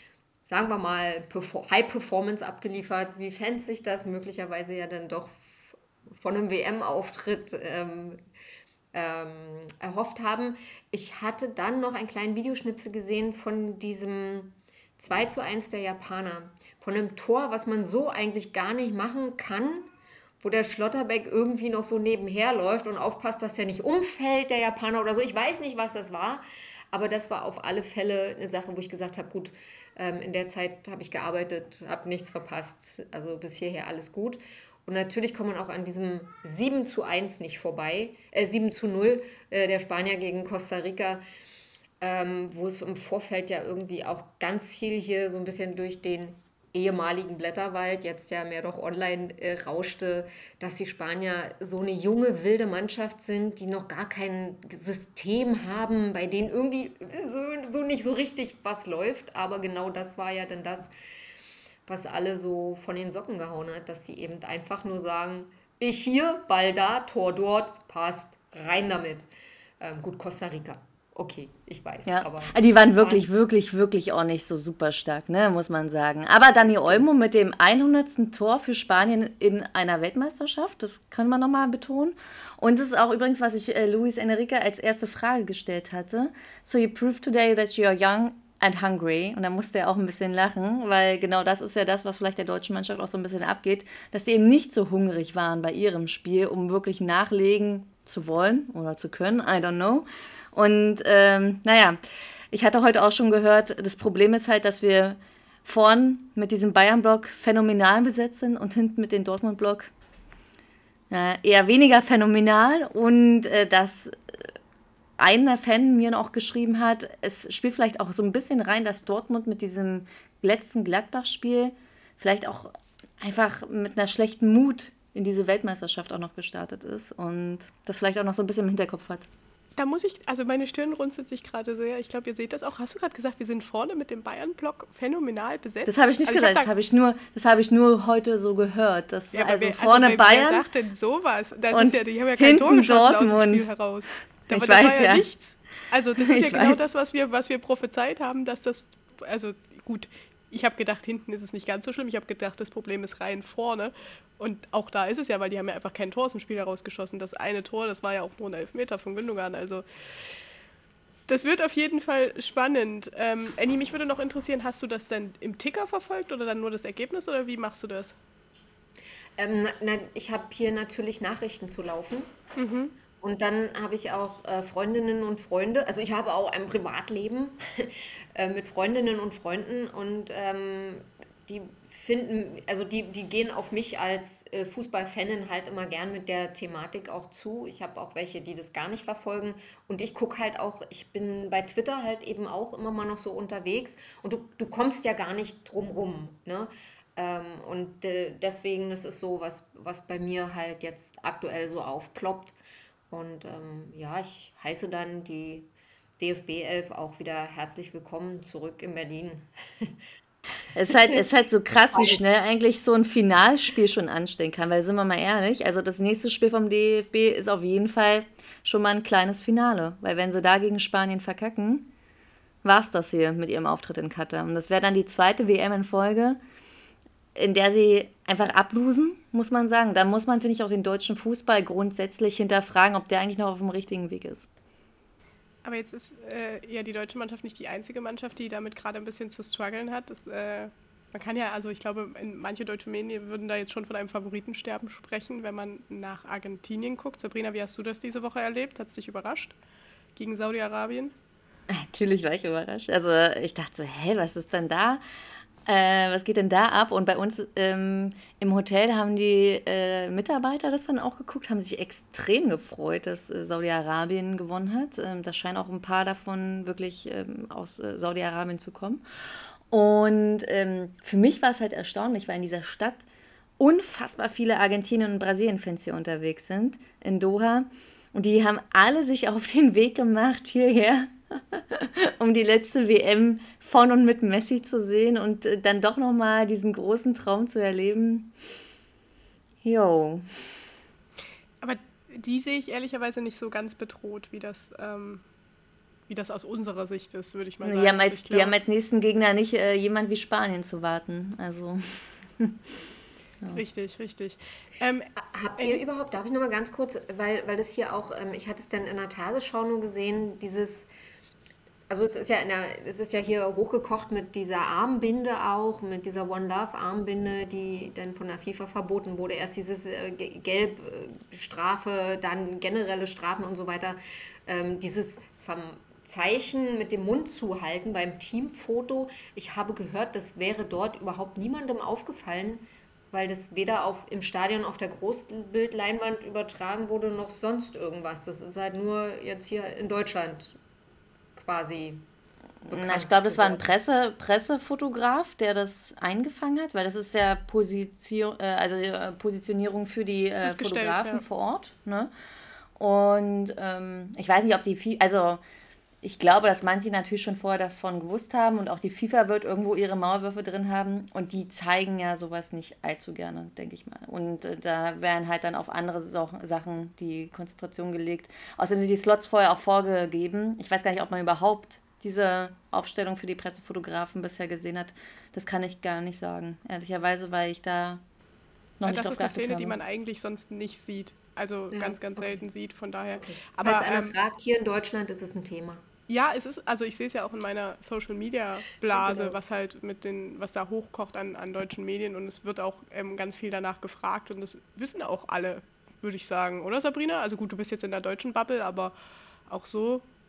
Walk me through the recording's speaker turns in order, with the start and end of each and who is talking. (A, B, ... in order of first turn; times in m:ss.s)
0:00.4-0:08.2 A
0:08.9-0:41.2 A
0:42.0-1:00.9 A
1:01.8-1:09.3 A
1:09.8-1:13.2 A
1:12.1-1:42.0 B
1:42.5-1:49.9 B
1:51.1-1:54.5 B
1:55.2-2:09.3 B
2:09.8-2:16.7 C
2:15.9-2:20.6 B
2:19.3-2:40.3 C
2:21.7-2:23.7 B
2:24.5-2:25.3 B
2:26.2-2:26.8 B
2:41.3-2:48.2 C
2:49.4-2:52.3 A
2:52.6-2:53.0 C
2:53.2-3:22.6 A
3:23.1-3:30.0 A
3:30.8-3:41.9 B
3:30.9-3:31.2 A
3:31.9-3:32.2 A
3:42.6-3:46.4 B
3:47.4-3:54.5 B
3:55.6-4:09.6 C
4:10.2-4:11.2 C
4:11.7-4:15.0 B
4:15.7-4:29.0 B
4:29.7-4:33.0 B
4:33.6-4:48.3 B
4:49.6-4:50.2 B
4:51.6-4:55.2 C
4:56.1-4:58.5 C
4:57.6-5:02.6 B
5:03.5-5:05.8 C
5:05.2-5:10.9 A
5:11.9-5:40.6 A
5:41.4-5:42.1 A
5:42.7-5:43.6 A
5:42.7-5:52.1 B
5:50.4-5:51.2 C
5:52.8-5:55.4 B
5:56.0-6:18.0 B
6:18.8-6:19.8 B
6:18.8-6:24.2 C
6:21.7-6:22.5 A
6:23.2-6:25.8 A
6:26.1-6:39.0 C
6:28.9-6:29.4 A
6:39.5-6:40.0 C